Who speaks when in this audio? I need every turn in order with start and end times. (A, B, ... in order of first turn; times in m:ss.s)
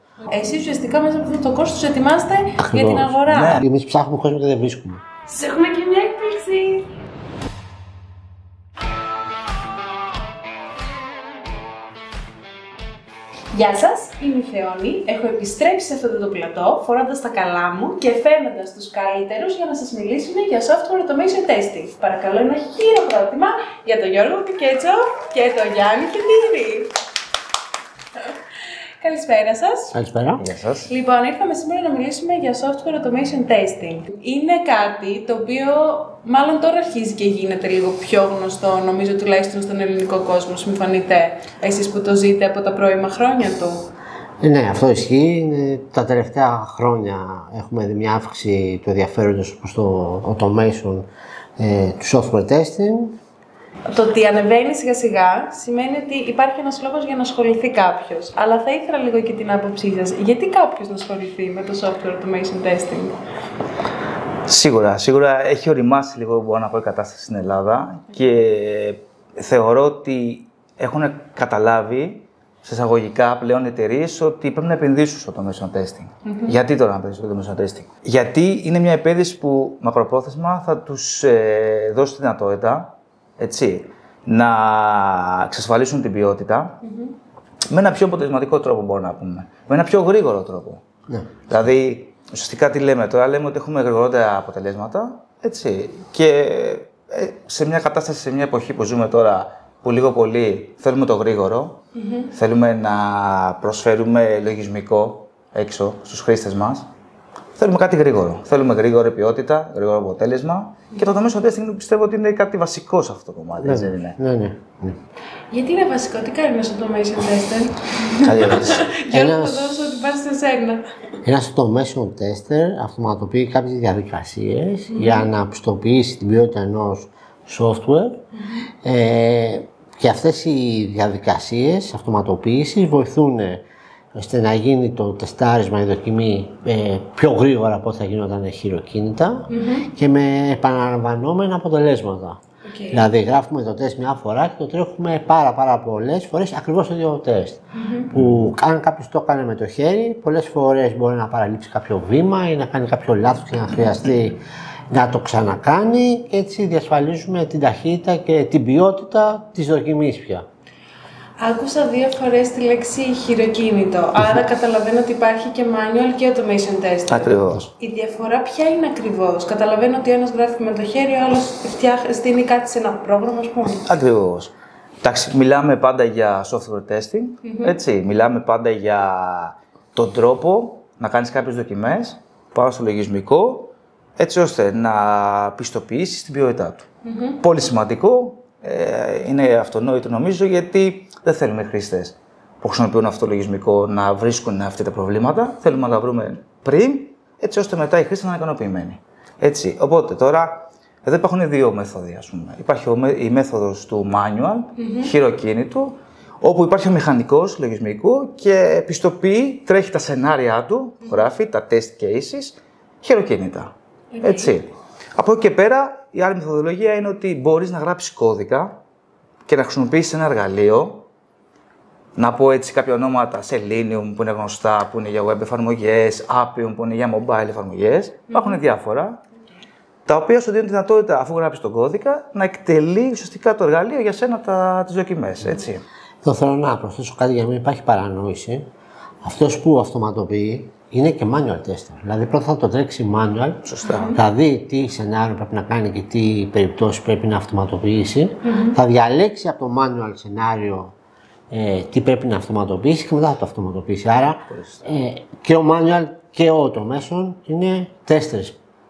0:00.2-0:03.7 A
0:02.6-0:05.0 B
0:03.3-0:03.7 C
0:05.3-0:06.9 A
0:13.5-0:26.9 A
0:29.0-0:30.0 A
0:29.9-0:30.4 B
0:30.4-0:30.9 C
0:30.9-0:43.9 A
0:44.4-0:51.1 B
0:51.6-0:53.2 B
0:53.9-1:03.2 A
1:04.5-1:26.8 C
1:16.2-1:16.6 A
1:26.8-1:27.1 A
1:27.7-1:30.8 C
1:31.5-1:41.8 C
1:42.0-1:42.3 A
1:42.3-1:46.9 C
1:47.6-1:54.2 C
1:53.6-1:55.0 B
1:55.5-2:00.9 A
1:58.2-1:58.8 C
1:58.5-2:00.0 B
2:01.2-2:08.2 B
2:04.9-2:05.3 A
2:08.4-2:08.7 A
2:08.8-2:13.6 B
2:14.2-2:40.4 B
2:19.5-2:19.9 A
2:22.6-2:23.1 A
2:27.8-2:28.1 A
2:41.4-2:53.9 A
2:47.1-2:47.7 C
2:53.6-2:54.5 C
2:55.0-3:06.9 C
2:57.4-2:57.8 A
3:07.0-3:07.4 A
3:07.4-3:33.7 C
3:24.8-3:25.1 A
3:34.1-3:34.5 A
3:34.2-3:38.8 C
3:39.5-3:41.1 C
3:42.2-3:49.2 C
3:48.3-3:48.6 A
3:50.1-3:55.8 C
3:56.2-3:58.7 B
3:59.2-4:10.9 B
4:03.6-4:04.2 C
4:03.8-4:04.2 A
4:08.4-4:08.8 A
4:11.5-4:18.6 B
4:14.5-4:14.8 C